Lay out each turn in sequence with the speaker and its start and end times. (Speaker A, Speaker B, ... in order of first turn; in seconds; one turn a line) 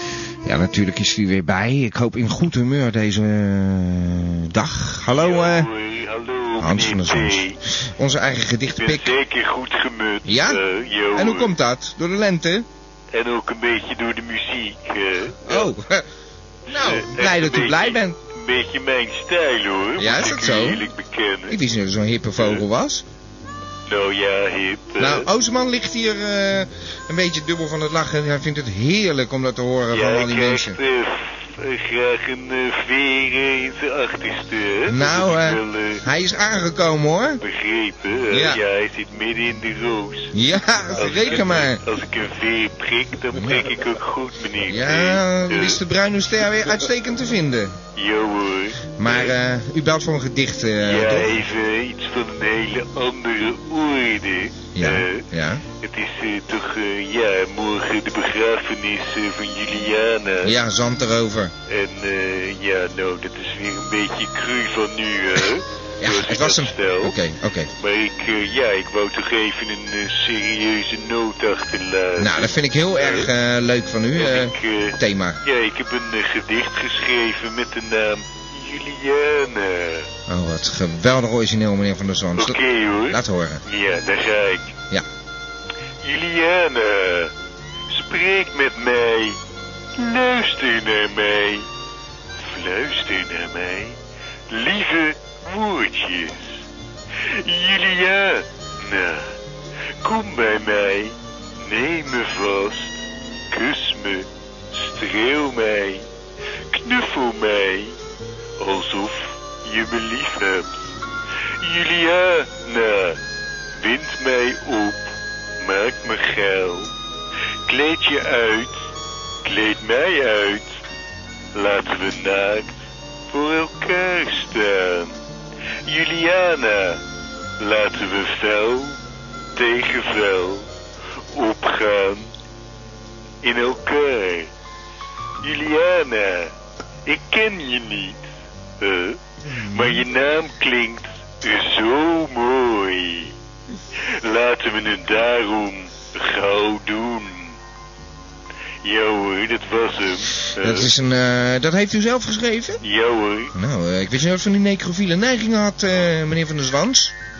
Speaker A: 0.4-5.7
Speaker B: 5.1-7.6
Speaker A: 6.6-9.2
Speaker B: 8.8-11.5
Speaker A: 10.2-12.7
Speaker B: 13.1-15.7
Speaker A: 15.4-16.1
Speaker A: 16.7-18.2
Speaker B: 16.7-21.6
Speaker A: 20.0-20.9
Speaker A: 21.5-23.0
Speaker B: 23.9-25.3
Speaker A: 25.0-30.8
Speaker B: 29.9-36.0
Speaker A: 34.9-37.4
Speaker B: 37.4-40.3
Speaker A: 38.3-38.6
Speaker A: 40.3-41.8
Speaker B: 41.0-45.8
Speaker A: 43.4-43.7
Speaker A: 44.6-47.8
Speaker B: 47.9-49.3
Speaker A: 49.0-51.3
Speaker B: 50.8-60.6
Speaker A: 54.7-55.6
Speaker A: 60.4-61.5
Speaker B: 61.7-67.2
Speaker A: 66.0-67.7
Speaker B: 67.8-73.3
Speaker A: 72.2-75.4
Speaker B: 74.1-80.1
Speaker A: 80.3-83.6
Speaker B: 82.3-84.7
Speaker B: 86.0-87.3
Speaker B: 87.9-89.4
Speaker B: 89.9-91.7
Speaker B: 92.4-94.0
Speaker B: 94.5-96.6
Speaker B: 97.3-99.3
Speaker B: 100.0-106.1
Speaker B: 106.7-108.0
Speaker B: 108.6-110.8
Speaker B: 111.6-113.2
Speaker B: 113.8-116.9
Speaker B: 117.7-118.9
Speaker B: 119.4-120.8
Speaker B: 121.5-122.7
Speaker B: 123.3-125.1
Speaker B: 125.8-127.0
Speaker B: 127.6-129.0
Speaker B: 129.5-130.7
Speaker B: 131.3-132.3
Speaker B: 133.4-134.5
Speaker B: 135.4-136.5
Speaker B: 137.1-138.3
Speaker B: 138.8-143.3
Speaker A: 139.5-140.0
Speaker B: 144.2-147.6
Speaker B: 148.8-150.9
Speaker A: 150.6-152.8
Speaker B: 152.8-153.5
Speaker A: 153.5-157.1